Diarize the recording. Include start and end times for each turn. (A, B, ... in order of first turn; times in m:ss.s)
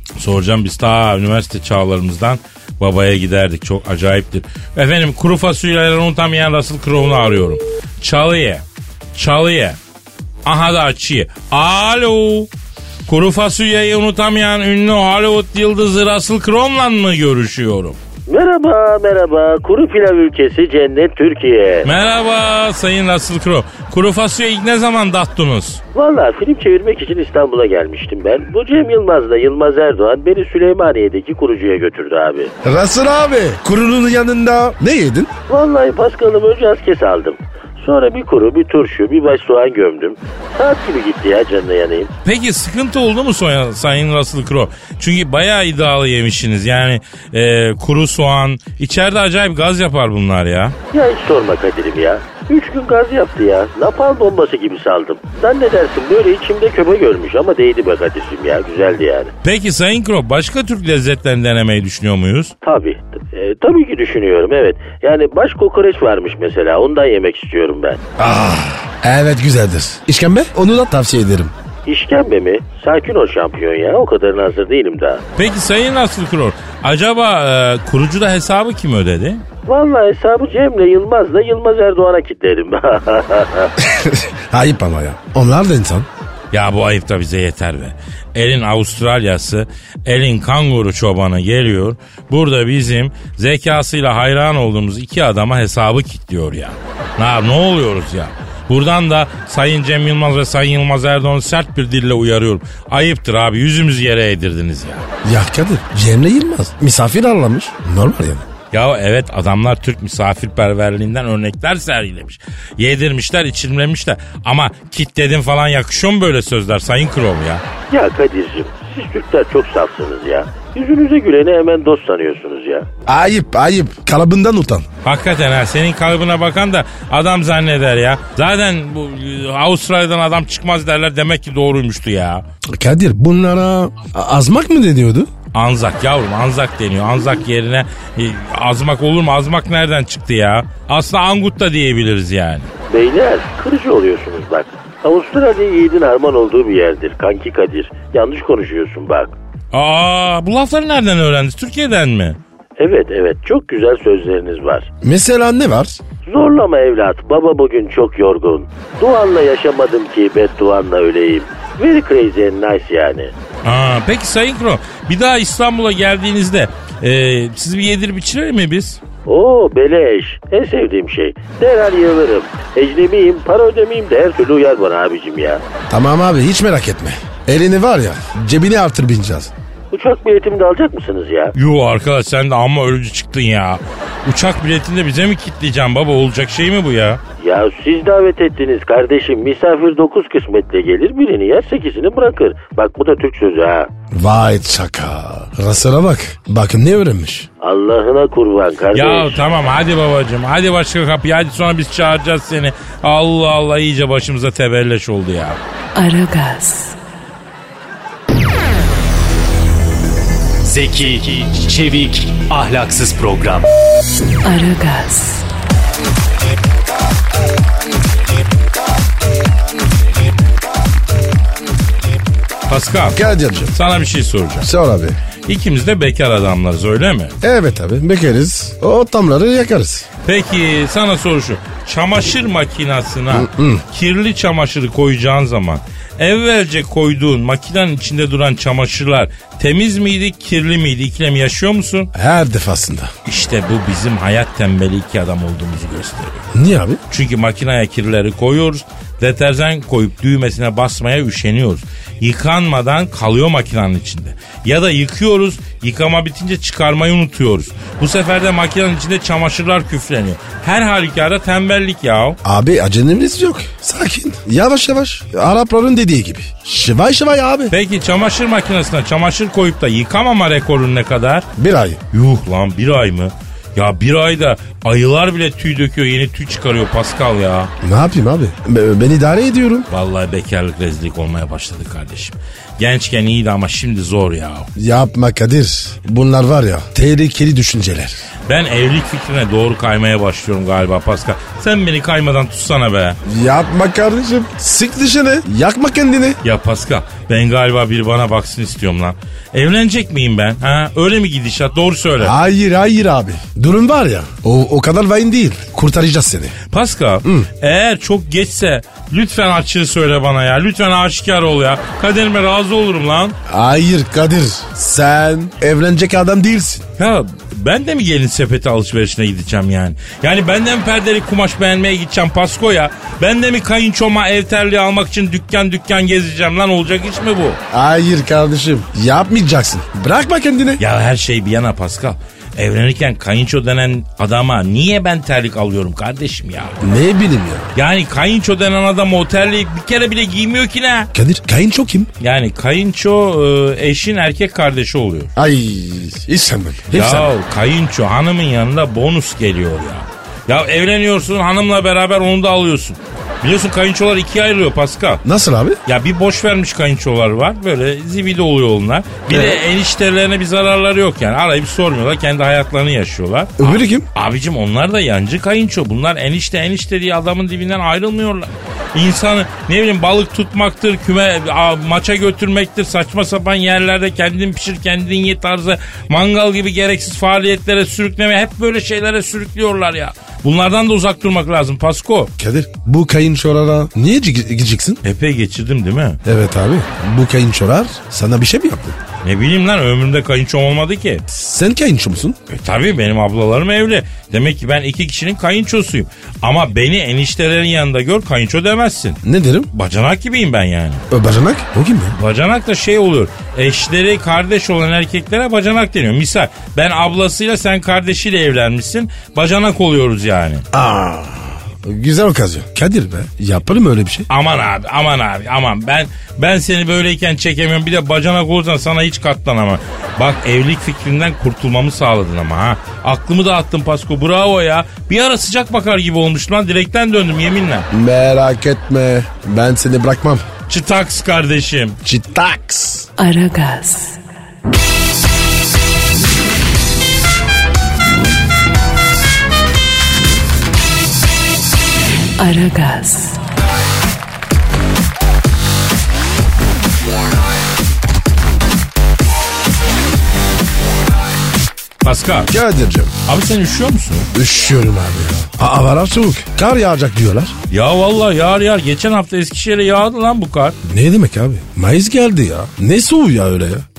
0:00.2-0:08.6 A
0:09.2-0:09.8 A
0:10.4-0:12.5 A
0:13.1-0:18.0 A
0:18.3-0:21.9 B
0:21.8-0:25.8 A
0:25.9-0:32.5 B
0:32.6-0:35.3 C
0:35.5-0:42.1 B
0:42.2-0:50.8 A
0:50.9-0:59.3 B
0:59.4-1:02.5 A
1:02.6-1:08.0 B
1:08.2-1:11.5 C
1:11.9-1:15.2 B
1:15.4-1:19.4 A
1:19.7-1:23.7 B
1:23.8-1:26.1 C
1:26.5-1:45.1 A
1:45.2-1:48.5 C
1:48.7-1:57.6 A
1:57.9-2:02.9 B
2:03.1-2:04.9 C
2:05.0-2:12.4 A
2:12.8-2:15.3 C
2:15.5-2:22.7 A
2:22.9-2:29.3 B
2:29.7-2:32.4 A
2:32.8-2:34.9 B
2:35.0-2:36.0 C
2:36.3-2:43.3 B
2:43.6-2:49.0 A
2:49.3-2:55.6 B
2:55.9-2:59.5 C
2:59.9-3:01.5 B
3:01.6-3:07.2 A
3:07.4-3:13.9 B
3:14.1-3:17.5 C
3:17.6-3:19.4 B
3:18.9-3:25.6 A
3:26.0-3:27.0 D
3:30.6-3:33.7 E
3:34.4-3:35.4 D
3:42.7-3:43.2 A
3:43.1-3:43.7 C
3:43.7-3:44.7 A
3:44.6-3:45.2 C
3:45.5-3:47.3 A
3:47.4-3:50.1 C
3:50.2-4:02.1 A
3:53.3-3:53.8 C
4:02.1-4:03.1 C
4:03.3-4:06.5 A
4:06.5-4:07.0 C
4:07.1-4:22.4 A
4:22.4-4:27.7 C
4:27.7-4:31.5 A
4:31.6-4:32.0 C
4:32.1-4:37.7 A
4:37.8-4:39.9 C
4:39.9-4:44.7 A
4:44.8-4:48.2 C
4:48.5-4:53.2 A
4:53.2-4:56.4 C
4:56.4-5:02.4 A
5:02.2-5:06.6 C
5:06.7-5:13.4 A
5:13.5-5:16.8 C
5:17.0-5:27.6 A
5:27.7-5:30.8 C
5:30.8-5:36.8 A
5:36.8-5:37.7 C
5:37.8-5:41.1 A
5:41.1-5:42.1 C
5:42.2-5:45.3 A
5:45.4-5:47.3 C
5:46.9-5:55.2 A
5:55.2-5:55.8 C
5:55.9-6:22.3 A
5:59.3-5:59.6 C
6:03.6-6:04.1 C
6:22.4-6:25.0 C
6:25.0-6:26.2 A
6:26.2-6:29.0 C
6:29.2-6:31.2 A
6:31.3-6:32.4 C
6:32.6-6:39.2 A
6:39.2-6:39.7 C
6:39.7-6:41.0 A
6:41.1-6:42.2 C
6:42.2-6:50.6 A
6:50.7-6:54.3 C
6:54.3-7:07.9 A
7:07.9-7:10.4 C
7:10.7-7:12.0 A
7:12.0-7:13.1 C
7:13.2-7:14.2 D
7:22.4-7:23.4 D
7:32.0-7:32.5 A
7:32.5-7:33.1 C
7:33.3-7:34.3 A
7:34.3-7:37.6 C
7:37.7-7:40.8 A
7:40.8-7:43.9 C